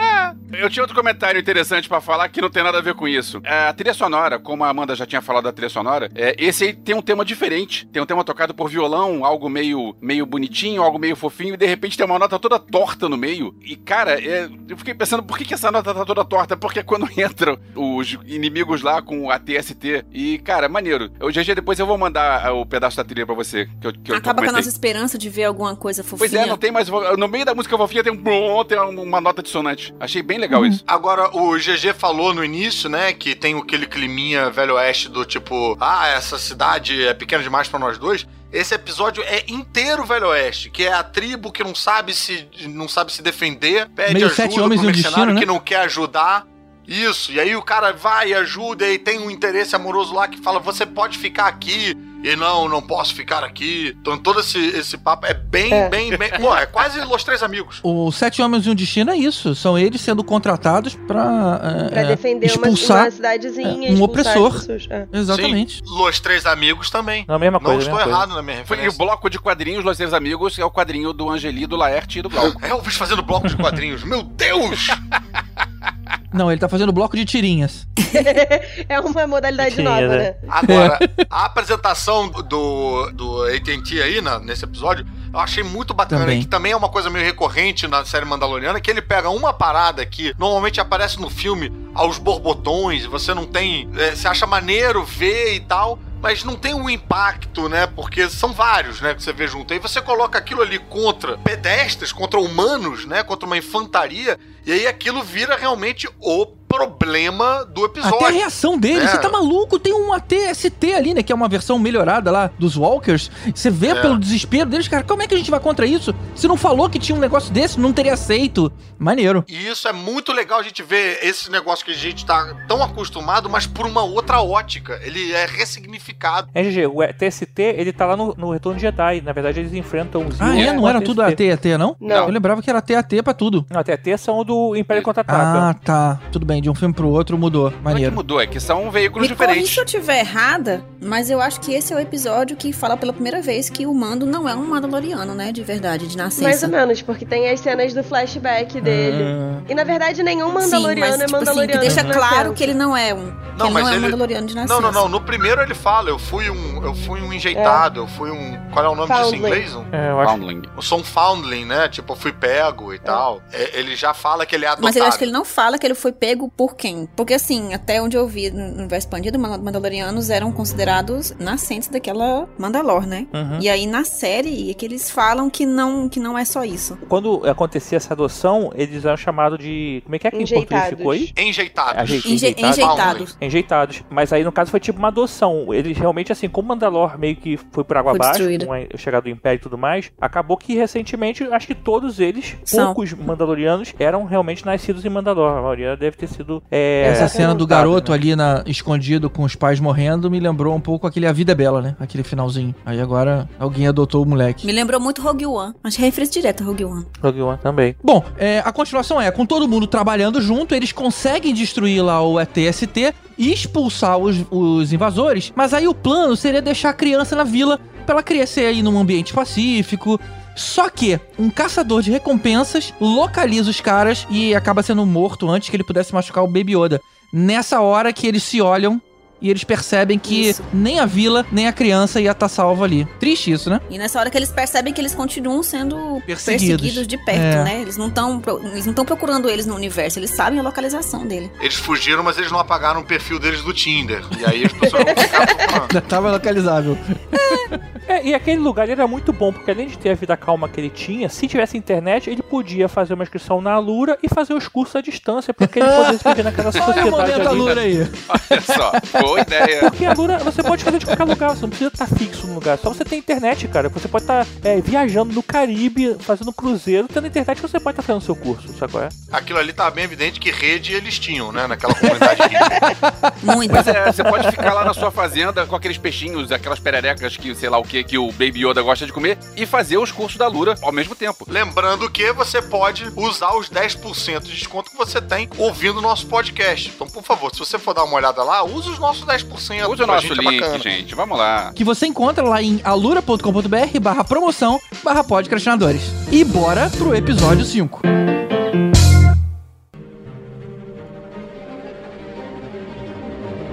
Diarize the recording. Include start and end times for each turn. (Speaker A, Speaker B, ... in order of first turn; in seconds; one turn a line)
Speaker A: 0.5-24.7
Speaker B: 24.1-26.6
Speaker A: 26.2-30.8
Speaker C: 30.5-30.8
Speaker D: 30.9-57.8
Speaker C: 44.1-45.5
Speaker E: 55.7-56.0
Speaker C: 57.8-63.1
Speaker E: 61.9-65.1
Speaker C: 63.6-65.8
Speaker D: 65.3-69.0
Speaker F: 67.3-68.3
Speaker A: 68.7-72.6
Speaker D: 72.4-75.0
Speaker C: 76.3-77.9
Speaker E: 78.1-80.4
Speaker F: 79.6-80.3
Speaker D: 80.5-108.4
Speaker C: 80.6-81.2
Speaker C: 86.1-86.5
Speaker C: 108.0-119.5
Speaker D: 108.9-109.4
Speaker D: 113.9-114.2
Speaker D: 119.5-126.5
Speaker F: 126.5-131.4
Speaker C: 130.4-133.7
Speaker E: 132.0-132.3
Speaker A: 132.1-132.3
Speaker F: 133.7-135.7
Speaker C: 135.3-138.2
Speaker A: 137.9-139.8
Speaker B: 139.2-146.7
Speaker E: 146.4-152.7
Speaker F: 148.8-149.6
Speaker B: 150.6-155.1
Speaker F: 151.8-152.2
Speaker D: 153.6-159.9
Speaker E: 157.6-157.9
Speaker E: 159.1-159.7
Speaker F: 159.9-160.4
Speaker A: 160.2-160.7
Speaker D: 160.7-165.3
Speaker B: 164.8-177.0
Speaker F: 173.3-173.7
Speaker F: 177.0-181.3
Speaker E: 180.3-181.3
Speaker D: 181.3-183.3
Speaker F: 181.9-198.2
Speaker B: 182.2-183.3
Speaker B: 188.1-188.7
Speaker B: 192.7-193.0
Speaker E: 197.0-197.6
Speaker C: 197.0-204.6
Speaker B: 204.6-207.1
Speaker F: 207.2-208.0
Speaker C: 208.0-233.8
Speaker B: 230.2-230.7
Speaker B: 233.9-241.5
Speaker C: 236.3-237.7
Speaker D: 241.6-245.9
Speaker E: 245.0-245.6
Speaker C: 245.4-247.8
Speaker F: 248.1-257.8
Speaker C: 255.6-259.9
Speaker A: 258.3-259.9
Speaker F: 259.8-269.1
Speaker D: 269.3-272.7
Speaker A: 272.0-272.7
Speaker C: 272.7-275.0
Speaker B: 273.4-274.2
Speaker A: 273.7-281.5
Speaker D: 281.5-290.9
Speaker A: 289.8-291.8
Speaker C: 291.8-298.1